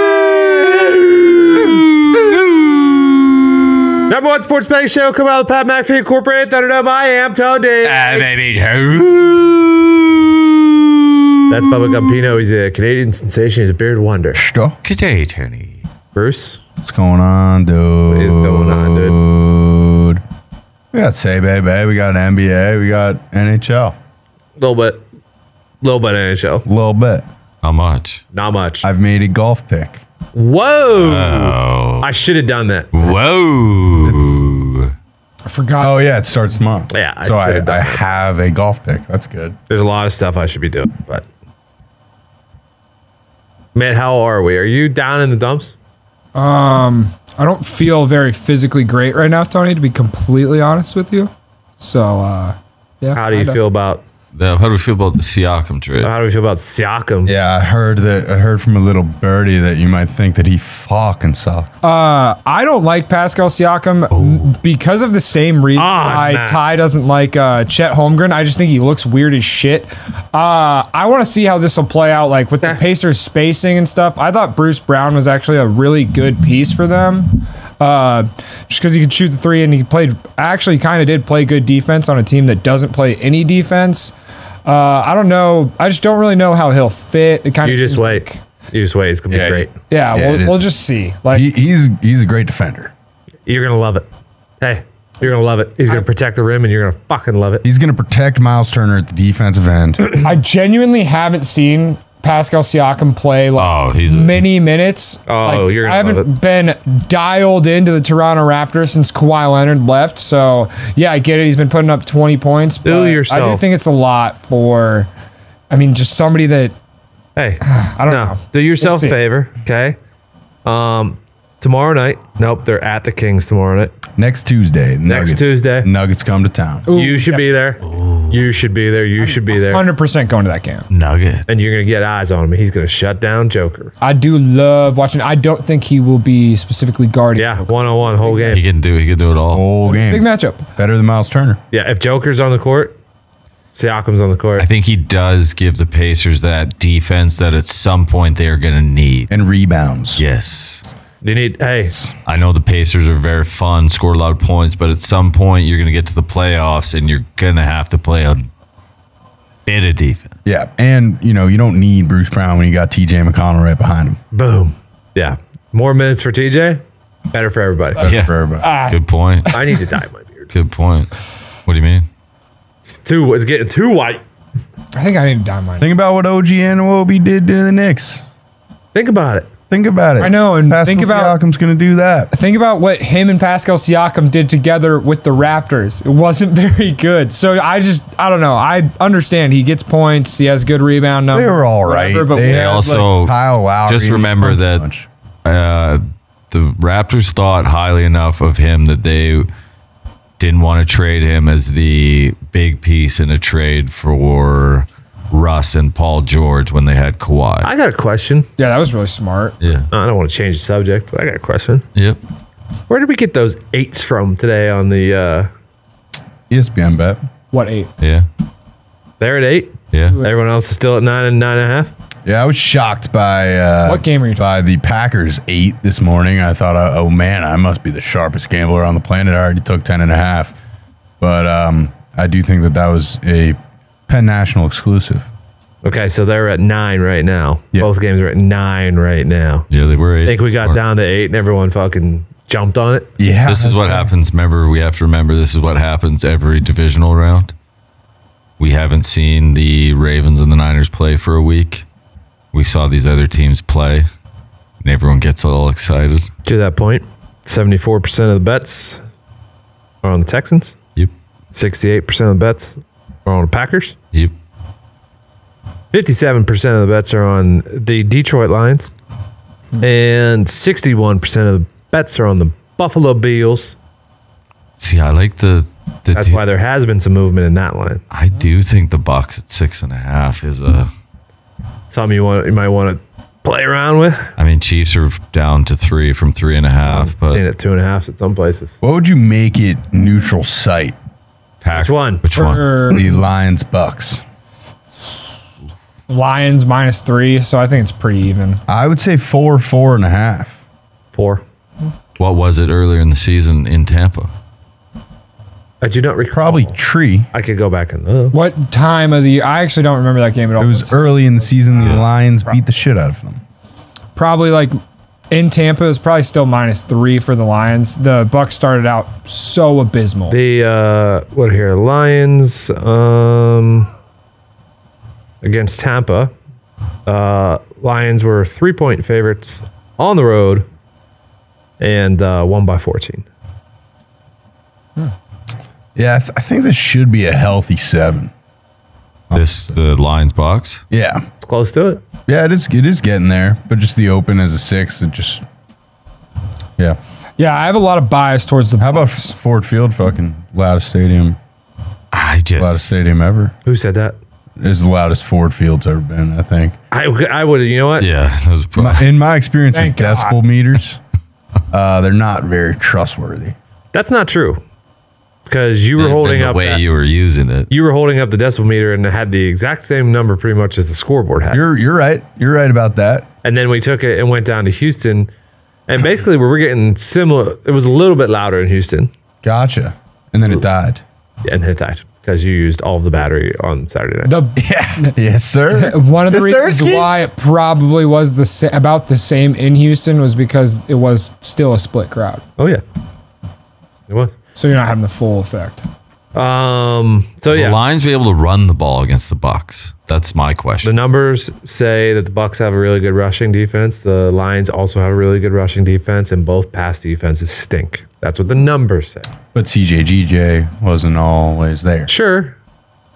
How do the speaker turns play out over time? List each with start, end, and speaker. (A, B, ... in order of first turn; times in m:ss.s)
0:00.6-0:01.0 A
0:04.1-0:08.3 A
0:07.8-0:10.8 B
0:11.5-0:14.4 A
0:14.3-0:14.8 C
0:14.8-0:15.8 B
0:16.1-0:16.6 A
0:16.8-0:20.2 C
0:18.1-0:19.2 A
0:20.9-0:24.0 C
0:24.6-0:25.0 A
0:25.8-0:26.6 A
0:26.6-0:27.2 C
0:27.6-0:28.2 B
0:28.3-0:28.9 A
0:28.8-0:30.0 C
0:30.3-0:33.2 A
0:30.9-0:32.1 B
0:32.9-0:34.9 B
0:34.0-0:34.4 C
0:35.5-0:36.0 D
0:35.8-0:39.6 C
0:36.9-0:38.0 A
0:39.7-0:41.2 A
0:43.7-0:45.8 A
0:46.4-0:53.6 D
0:53.2-0:54.0 A
0:54.3-0:56.1 B
0:56.0-0:57.3 A
0:57.3-1:01.7 C
1:01.8-1:24.1 D
1:04.1-1:04.5 B
1:05.8-1:06.6 A
1:24.7-1:28.4 D
1:27.6-1:29.7 A
1:29.3-1:30.7 C
1:29.9-1:31.5 D
1:31.3-1:32.9 C
1:33.5-1:34.1 A
1:34.6-1:37.6 A
1:37.6-1:40.1 C
1:40.2-1:55.1 D
1:43.6-1:44.4 B
1:45.3-1:46.3 A
1:52.8-1:53.6 A
1:55.7-1:56.7 D
1:57.4-2:00.0 A
1:57.6-1:59.2 D
2:00.6-2:04.0 A
2:04.2-2:06.9 C
2:05.1-2:05.9 A
2:06.9-2:07.4 D
2:06.9-2:09.9 A
2:07.9-2:08.4 B
2:09.2-2:10.9 D
2:10.9-2:11.5 B
2:11.5-2:13.9 A
2:14.0-2:18.6 D
2:17.4-2:18.6 A
2:18.5-2:19.6 B
2:19.5-2:21.6 C
2:20.0-2:20.7 D
2:21.7-2:23.0 A
2:23.7-2:24.7 A
2:24.6-2:29.3 B
2:29.3-2:30.2 C
2:30.2-2:30.8 B
2:31.2-2:31.9 A
2:32.2-2:38.5 B
2:39.7-2:40.3 B
2:40.5-2:44.2 C
2:44.3-2:48.1 A
2:48.0-2:48.7 C
2:48.0-2:49.6 B
2:48.6-2:49.8 D
2:49.5-2:50.5 A
2:50.5-2:51.2 B
2:51.7-2:52.1 B
2:52.9-2:54.2 A
2:54.9-2:55.9 D
2:55.8-2:58.2 C
2:58.9-2:59.5 A
2:59.7-3:02.3 C
3:00.2-3:01.4 D
3:02.3-3:12.7 D
3:11.3-3:15.1 C
3:12.4-3:14.8 B
3:15.4-3:19.5 B
3:20.4-3:27.7 B
3:27.6-3:28.5 A
3:28.6-3:29.6 D
3:29.6-3:29.9 B
3:29.9-3:31.8 A
3:32.9-3:35.5 A
3:36.5-3:37.2 C
3:37.5-3:37.9 D
3:38.0-3:38.3 B
3:39.2-3:41.9 A
3:39.9-3:40.2 B
3:42.2-3:50.6 C
3:43.9-3:44.5 D
3:51.2-3:55.3 C
3:55.8-3:59.7 A
3:59.7-4:00.8 B
4:00.2-4:03.1 A
4:03.2-4:04.1 C
4:03.5-4:07.5 B
4:08.6-4:11.8 B
4:12.5-4:14.1 B
4:14.8-4:16.3 B
4:16.4-4:19.0 A
4:20.0-4:20.8 A
4:21.5-4:24.0 A
4:25.9-4:28.9 A
4:29.8-4:33.8 A
4:34.8-4:36.4 B
4:36.1-4:38.0 A
4:38.1-4:40.9 B
4:41.9-4:44.3 A
4:44.4-4:47.4 B
4:46.8-4:48.8 A
4:48.8-4:51.0 C
4:51.6-4:53.0 B
4:51.7-4:52.2 A
4:52.4-4:53.0 D
4:52.9-4:54.2 C
4:56.1-4:58.6 D
4:58.7-5:00.6 C
5:01.1-5:01.4 A
5:02.2-5:04.3 B
5:05.8-5:06.8 A
5:06.3-5:07.3 C
5:07.3-5:08.4 A
5:08.3-5:12.6 D
5:10.6-5:13.4 C
5:11.8-5:12.1 B
5:14.2-5:14.8 D
5:15.3-5:20.4 D
5:20.3-5:23.9 A
5:25.4-5:26.3 A
5:27.1-5:30.6 A
5:31.8-5:33.2 A
5:36.0-5:38.3 C
5:39.3-5:40.8 B
5:40.9-5:41.2 C
5:41.4-5:42.0 A
5:42.3-5:45.4 C
5:47.4-5:49.3 D
5:48.8-5:51.4 C
5:52.1-5:52.9 B
5:52.6-5:53.5 C
5:53.6-5:54.2 A
5:54.6-5:56.8 C
5:56.9-5:58.1 A
5:58.0-5:59.0 B
5:58.8-6:01.0 C
5:59.7-6:00.4 D
6:01.7-6:03.6 C
6:03.9-6:04.6 A
6:05.5-6:06.8 A
6:06.0-6:07.7 B
6:07.7-6:11.6 A
6:11.5-6:13.3 C
6:13.4-6:15.3 A
6:15.9-6:19.1 A
6:19.4-6:21.0 C
6:21.4-6:24.4 A
6:24.2-6:25.2 D
6:24.6-6:27.1 C
6:25.7-6:32.4 D
6:32.6-6:32.8 A
6:34.1-6:34.4 A
6:34.6-6:35.8 D
6:36.3-6:37.8 A
6:37.5-6:40.9 B
6:40.8-6:49.3 A
6:49.5-6:52.1 C
6:52.1-6:52.6 A